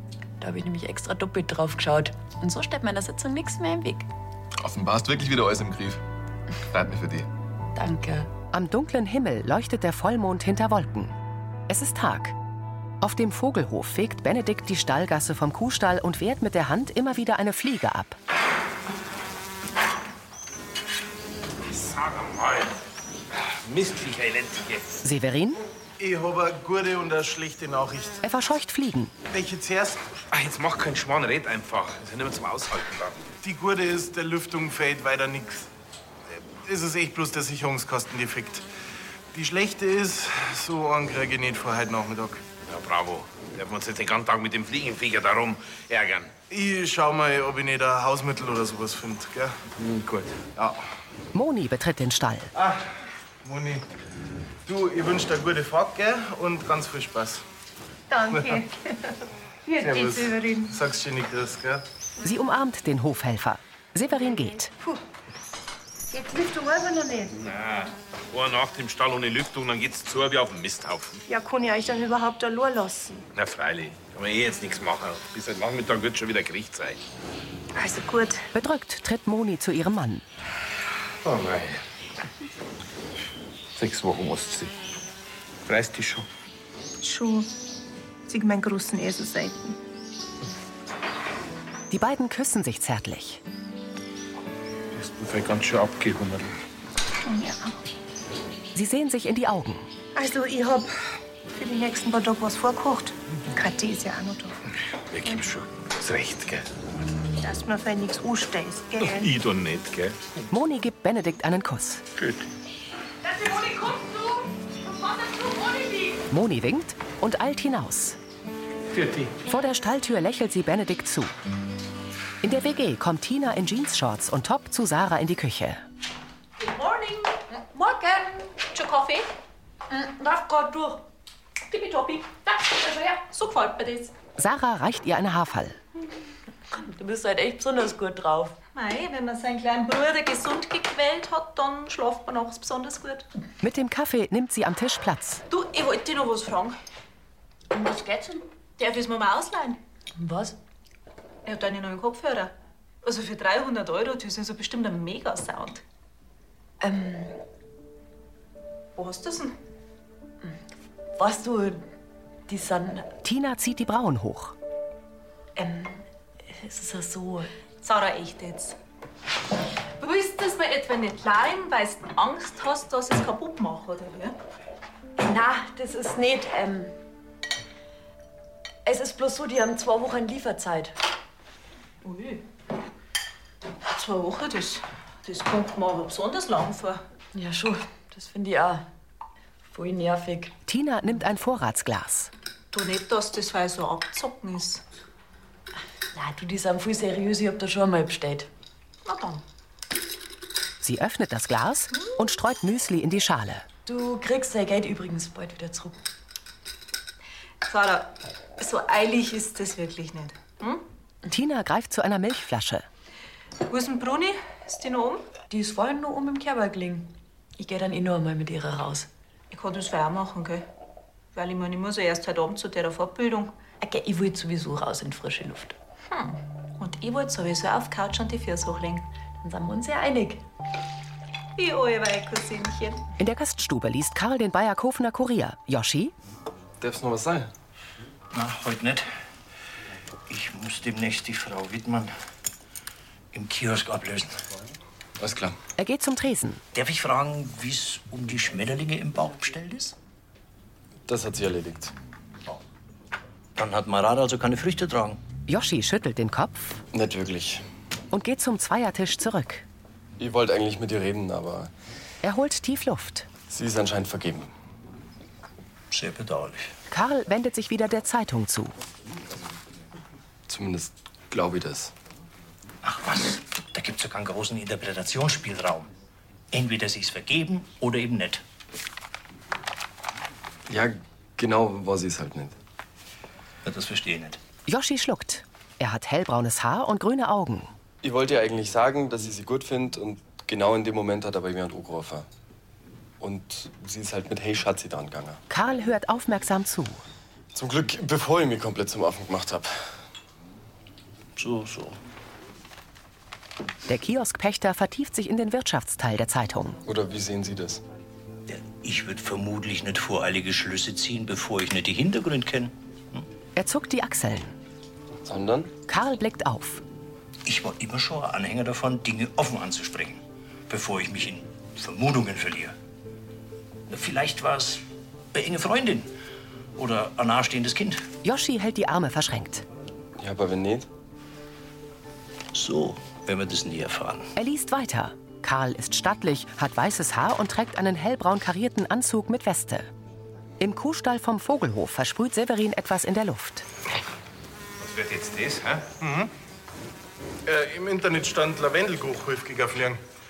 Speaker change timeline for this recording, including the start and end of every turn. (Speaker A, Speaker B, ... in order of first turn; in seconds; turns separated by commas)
Speaker A: 0.4-4.1, Speaker B: 4.6-6.0, Speaker B: 6.7-7.3, Speaker A: 7.7-8.3, Speaker C: 8.5-11.1, Speaker C: 11.7-12.3, Speaker C: 13.0-18.2, Speaker D: 21.6-22.7, Speaker D: 23.3-25.0, Speaker C: 25.0-25.6, Speaker E: 26.0-28.2, Speaker C: 28.2-29.1, Speaker E: 29.3-30.0, Speaker D: 30.3-33.2, Speaker E: 33.4-35.7, Speaker E: 36.6-38.6, Speaker E: 39.3-42.4, Speaker D: 42.7-46.3, Speaker E: 46.5-49.5, Speaker D: 49.8-50.4, Speaker C: 51.3-52.5, Speaker E: 53.4-53.8, Speaker E: 54.6-57.4, Speaker F: 58.1-58.6, Speaker E: 58.3-58.6, Speaker F: 59.7-60.6, Speaker E: 59.7-61.8, Speaker C: 62.2-64.7, Speaker F: 66.1-67.3, Speaker D: 67.4-71.2, Speaker F: 71.3-73.2, Speaker D: 73.3-77.0, Speaker F: 77.8-78.4, Speaker C: 78.5-80.2, Speaker D: 81.2-81.8, Speaker D: 83.8-84.7, Speaker D: 85.7-86.2, Speaker F: 87.0-87.5, Speaker F: 88.3-89.8, Speaker C: 91.9-93.4, Speaker D: 94.9-96.5, Speaker F: 97.2-97.7, Speaker C: 98.7-99.9, Speaker F: 100.1-100.9, Speaker F: 101.5-104.5, Speaker D: 105.1-106.7, Speaker F: 107.4-109.3, Speaker D: 109.0-110.4, Speaker C: 110.5-112.0, Speaker D: 112.2-112.5, Speaker A: 113.4-114.2, Speaker A: 115.2-116.0, Speaker C: 116.3-118.2, Speaker D: 118.9-119.3, Speaker C: 119.4-121.3, Speaker C: 122.4-125.8, Speaker G: 126.6-129.3, Speaker A: 129.9-131.0, Speaker G: 131.7-132.3, Speaker A: 132.7-133.2, Speaker G: 133.3-134.1, Speaker C: 134.4-135.8, Speaker A: 136.7-138.6, Speaker G: 138.7-143.3, Speaker C: 143.6-145.4, Speaker G: 145.5-146.8, Speaker A: 147.7-148.4, Speaker G: 148.8-149.8, Speaker A: 150.2-150.6, Speaker G: 151.4-155.8, Speaker A: 156.8-157.4, Speaker G: 158.9-159.6, Speaker A: 161.2-161.9, Speaker A: 162.5-163.1, Speaker C: 163.2-164.6, Speaker A: 165.6-167.5, Speaker G: 167.8-168.8, Speaker G: 170.0-174.4, Speaker A: 175.2-176.9, Speaker A: 178.8-180.9, Speaker G: 182.0-182.4, Speaker G: 183.8-187.0, Speaker A: 187.3-188.9, Speaker A: 189.7-190.6, Speaker C: 190.7-192.3, Speaker G: 192.7-194.8, Speaker A: 196.1-198.5, Speaker G: 199.0-199.4, Speaker C: 200.8-203.7, Speaker A: 203.8-206.0, Speaker G: 207.6-210.8, Speaker C: 211.3-212.8, Speaker G: 213.7-215.3, Speaker A: 215.5-219.1, Speaker G: 219.5-220.7, Speaker G: 221.3-223.6, Speaker A: 223.8-225.8, Speaker G: 226.1-229.1, Speaker A: 229.4-230.4, Speaker G: 231.6-233.0, Speaker C: 233.2-236.1, Speaker H: 236.8-237.5, Speaker I: 238.3-239.1, Speaker I: 240.3-242.1, Speaker I: 243.3-244.3, Speaker H: 245.2-245.5, Speaker C: 245.8-246.6, Speaker I: 246.7-249.9, Speaker H: 251.1-251.9, Speaker I: 253.6-255.2, Speaker C: 255.5-256.8, Speaker H: 256.9-257.6, Speaker C: 258.1-259.6, Speaker H: 260.2-261.7, Speaker C: 262.2-263.3, Speaker H: 263.5-264.5, Speaker I: 265.9-266.7, Speaker C: 266.9-268.8, Speaker H: 270.5-271.9, Speaker I: 272.8-275.9, Speaker I: 276.5-278.4, Speaker H: 280.7-282.5, Speaker I: 283.6-284.4, Speaker C: 284.7-287.7, Speaker H: 288.0-292.2, Speaker H: 293.2-295.4, Speaker C: 295.5-297.0, Speaker H: 297.5-299.8, Speaker I: 301.4-302.0, Speaker C: 303.9-306.8, Speaker H: 306.9-307.8, Speaker I: 308.5-313.2, Speaker C: 313.6-314.5, Speaker H: 315.2-315.7, Speaker C: 315.9-316.8, Speaker I: 317.4-322.7, Speaker I: 323.9-326.1, Speaker I: 326.8-328.0, Speaker C: 328.2-329.6, Speaker H: 330.2-330.9, Speaker I: 332.5-334.3, Speaker C: 334.4-339.9, Speaker C: 340.6-343.6, Speaker D: 344.8-345.9, Speaker E: 346.0-346.3, Speaker E: 347.4-350.0